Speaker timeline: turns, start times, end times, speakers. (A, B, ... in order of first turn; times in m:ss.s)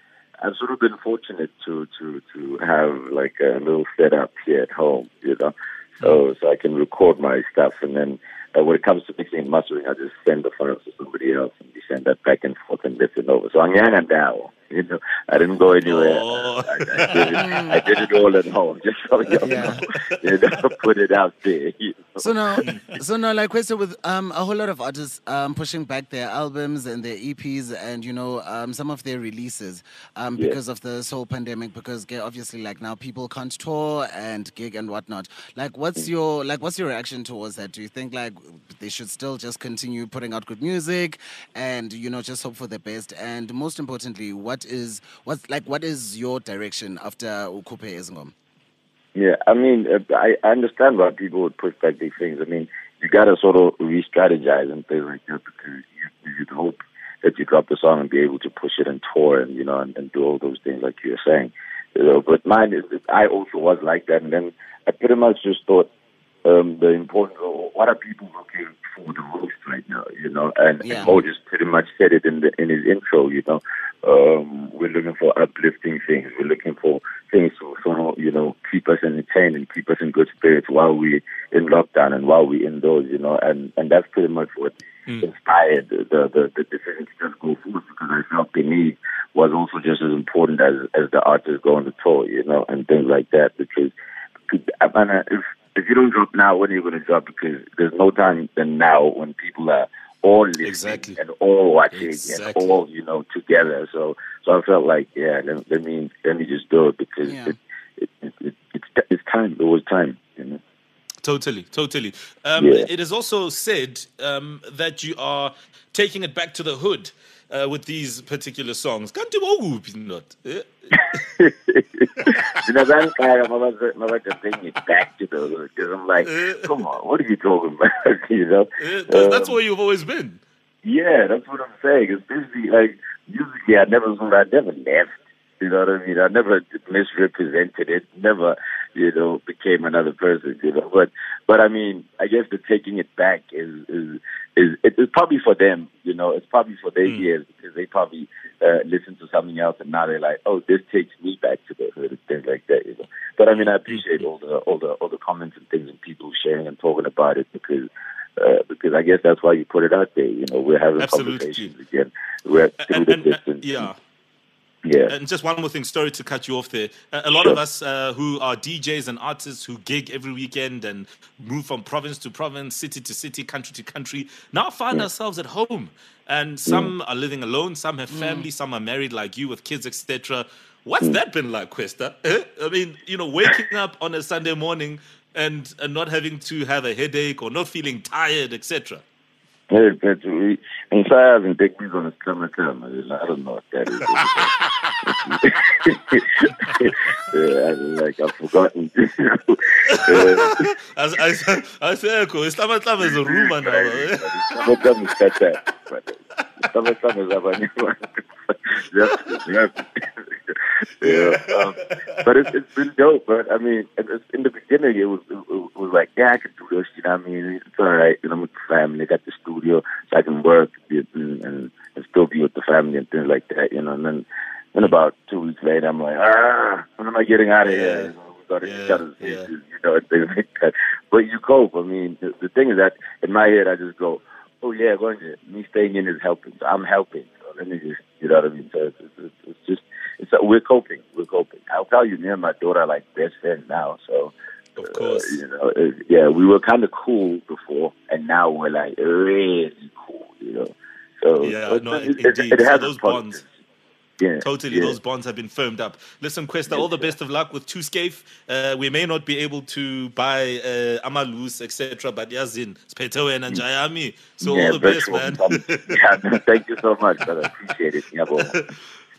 0:00.4-0:22.3 A
0:15.8-0:17.4 B
0:17.4-0:17.8 C
0:19.4-0:19.8 C
0:19.4-0:20.0 B
0:22.2-0:48.3 C
0:22.6-0:22.9 B
0:49.1-1:05.9 A
1:06.4-1:33.9 A
1:10.8-1:11.2 C
1:34.5-1:50.6 A
1:40.6-1:41.2 B
1:41.9-1:42.8 B
1:47.2-1:47.5 C
1:51.2-2:00.9 B
1:52.6-1:52.9 A
2:01.4-2:09.6 A
2:06.2-2:06.7 B
2:08.8-2:10.4 B
2:10.8-2:43.9 A
2:33.5-2:34.0 B
2:41.0-2:41.7 B
2:42.8-2:44.0 B
2:44.8-2:45.1 A
2:45.1-3:09.0 B
2:56.6-2:56.9 A
2:58.1-2:58.5 C
3:09.7-3:14.5 A
3:15.0-3:20.7 A
3:19.9-3:24.7 B
3:23.0-4:13.5 A
3:31.0-3:32.2 B
3:47.6-3:49.5 B
4:04.8-4:05.4 B
4:11.4-4:13.4 B
4:14.2-4:15.0 A
4:14.4-4:26.0 B
4:16.7-4:17.1 A
4:24.4-4:28.5 A
4:28.4-4:28.7 B